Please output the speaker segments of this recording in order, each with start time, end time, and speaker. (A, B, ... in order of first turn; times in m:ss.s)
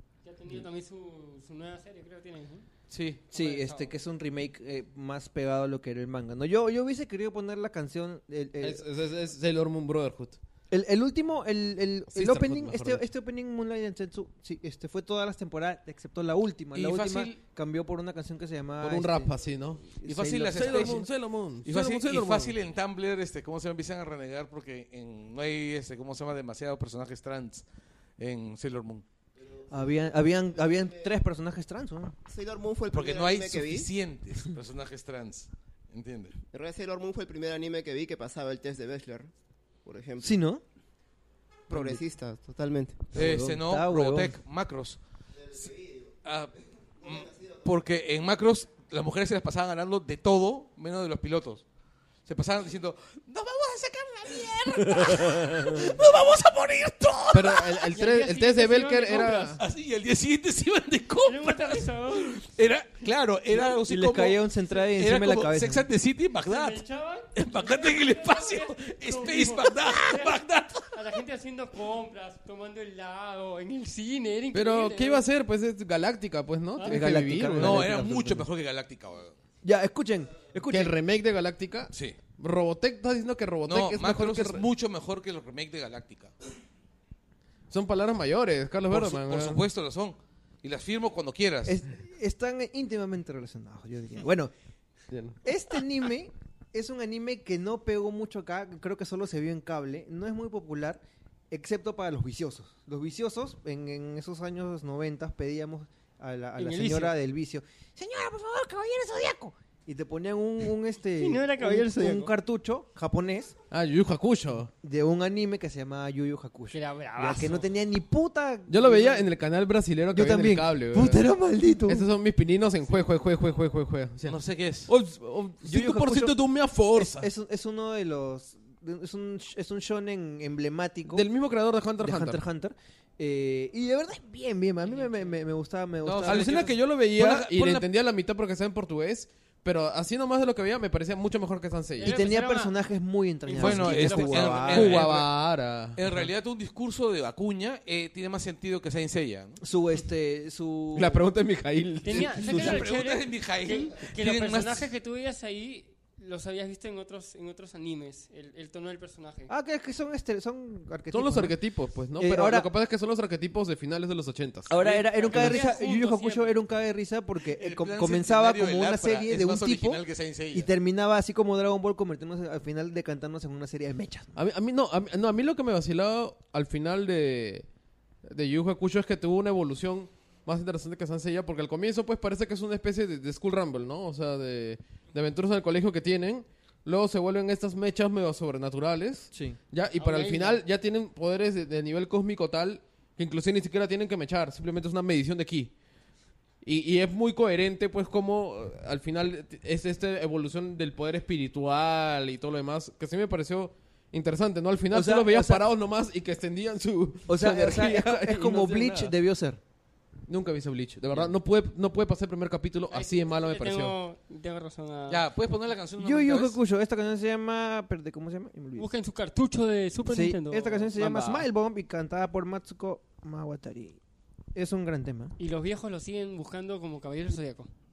0:00.2-0:02.7 A
0:02.9-0:03.2 B
0:03.3-0:08.8 C
0:03.3-0:03.9 A
0:08.6-0:10.4 D
0:10.7-0:19.3 C
0:12.1-0:13.0 D
0:16.7-0:17.4 B
0:18.8-0:19.9 D
0:20.0-0:21.0 C
0:20.0-0:21.1 B
0:20.5-0:22.6 D
0:21.6-0:27.6 B
0:28.2-0:29.0 B
0:29.7-0:32.2 C
0:32.3-0:33.9 E
0:32.9-0:36.4 B
0:36.5-0:39.3 E
0:39.8-0:40.4 E
0:40.2-0:40.6 C
0:41.7-0:43.1 E
0:41.7-0:42.0 C
0:43.1-0:44.4 C
0:43.1-0:45.0 B
0:45.5-0:46.1 E
0:46.2-0:51.6 B
0:52.2-0:57.8 B
0:57.3-0:59.6 D
0:57.9-0:59.6 A
0:59.6-1:10.9 B
1:01.2-1:02.4 A
1:03.6-1:05.9 C
1:06.4-1:15.2 A
1:14.5-1:17.9 D
1:16.8-1:18.5 C
1:17.6-1:19.4 B
1:19.6-1:21.0 C
1:20.7-1:24.6 D
1:21.9-1:22.2 B
1:23.6-1:26.3 B
1:27.7-1:29.6 D
1:28.9-1:31.8 B
1:31.6-1:34.5 C
1:35.1-1:35.4 D
1:35.4-1:53.6 C
1:46.6-1:47.1 A
1:51.2-1:52.3 A
1:53.7-1:54.7 D
1:54.8-1:59.3 C
1:56.7-1:57.7 A
1:58.7-2:01.2 D
2:00.1-2:02.1 C
2:01.8-2:07.3 D
2:04.2-2:04.9 B
2:05.6-2:06.4 C
2:06.9-2:11.3 C
2:11.1-2:12.4 D
2:12.0-2:16.7 C
2:14.8-2:15.3 A
2:16.0-2:17.9 B
2:16.2-2:22.2 D
2:22.0-2:22.8 A
2:22.0-2:25.0 C
2:23.4-2:24.7 A
2:23.5-2:25.3 B
2:24.7-2:26.0 D
2:25.9-2:29.6 B
2:29.6-2:31.2 C
2:30.9-2:32.8 D
2:32.0-2:39.5 A
2:32.2-2:34.9 B
2:39.5-2:41.6 C
2:41.1-2:44.8 D
2:42.2-2:42.7 C
2:44.7-2:54.3 C
2:44.8-2:46.6 A
2:47.4-2:50.7 B
2:54.3-2:57.7 D
2:58.3-3:15.7 D
3:09.3-3:09.6 C
3:10.0-3:10.6 A
3:16.6-3:29.1 D
3:24.9-3:25.7 C
3:27.3-3:29.6 C
3:30.3-3:34.0 D
3:32.9-3:35.2 A
3:35.1-3:36.6 B
3:36.0-3:38.9 C
3:38.8-3:41.4 A
3:40.0-3:44.0 C
3:44.5-3:45.3 C
3:45.4-3:47.7 A